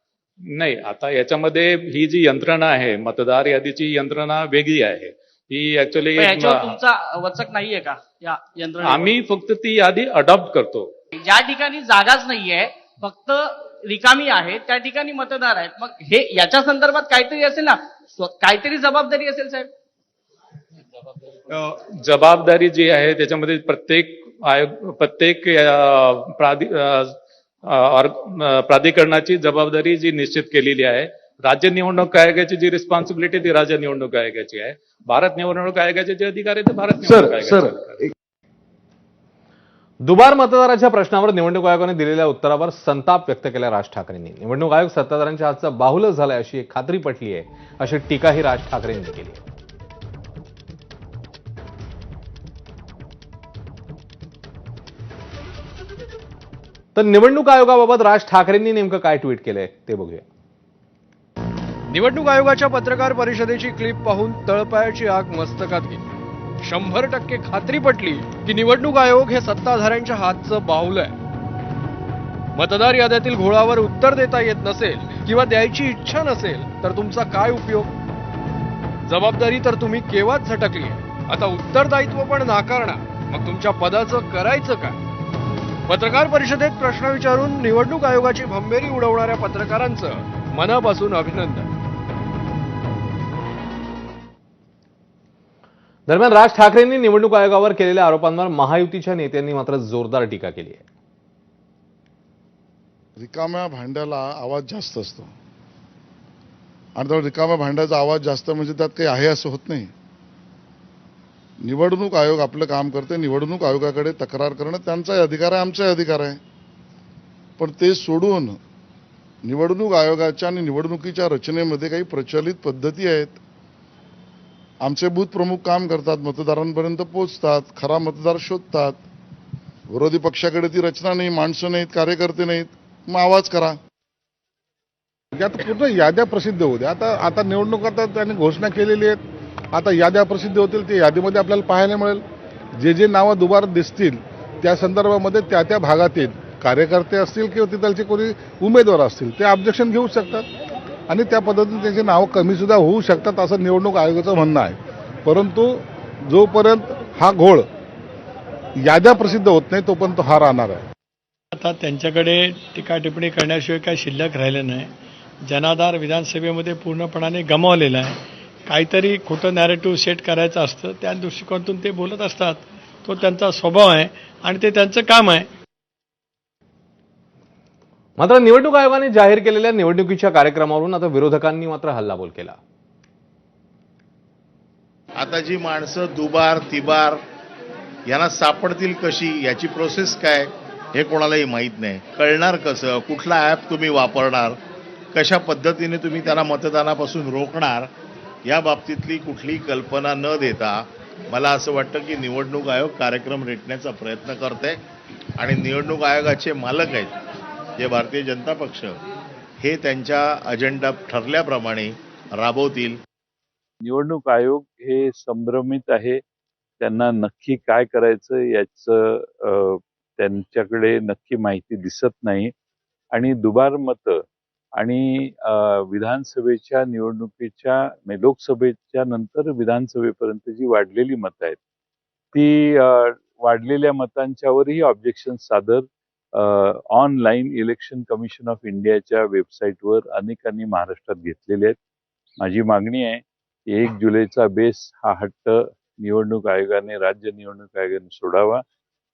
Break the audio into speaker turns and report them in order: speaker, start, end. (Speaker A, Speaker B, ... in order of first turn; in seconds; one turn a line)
Speaker A: 0.5-6.8
Speaker B: 6.2-9.1
Speaker A: 8.8-10.9
Speaker B: 11.2-19.7
Speaker A: 21.5-27.1
Speaker A: 27.7-38.0
Speaker C: 40.0-49.4
Speaker C: 56.9-60.2
Speaker D: 61.9-66.0
Speaker D: 66.6-71.2
Speaker D: 72.5-77.9
Speaker D: 79.1-85.0
Speaker D: 85.9-91.7
Speaker C: 96.1-100.8
Speaker E: 103.2-105.3
Speaker E: 107.0-109.9
Speaker E: 111.6-116.4
Speaker E: 117.6-118.6
Speaker E: 119.4-123.4
Speaker E: 124.8-129.0
Speaker E: 129.9-133.8
Speaker F: 135.3-139.2
Speaker F: 139.7-142.2
Speaker F: 142.8-150.4
Speaker F: 151.1-157.7
Speaker F: 158.8-160.8
Speaker G: 161.6-164.9
Speaker G: 165.5-168.1
Speaker G: 168.7-175.4
Speaker C: 178.2-182.6
Speaker H: 185.2-187.2
Speaker H: 188.1-194.6
Speaker H: 195.1-197.9
Speaker H: 198.5-200.8
Speaker H: 201.3-204.8
Speaker H: 205.4-207.1
Speaker H: 207.8-209.0
Speaker H: 209.6-212.9
Speaker I: 213.8-216.2
Speaker I: 216.8-222.5
Speaker I: 223.1-224.2
Speaker I: 224.8-231.6
Speaker I: 232.3-241.8
Speaker I: 242.4-248.6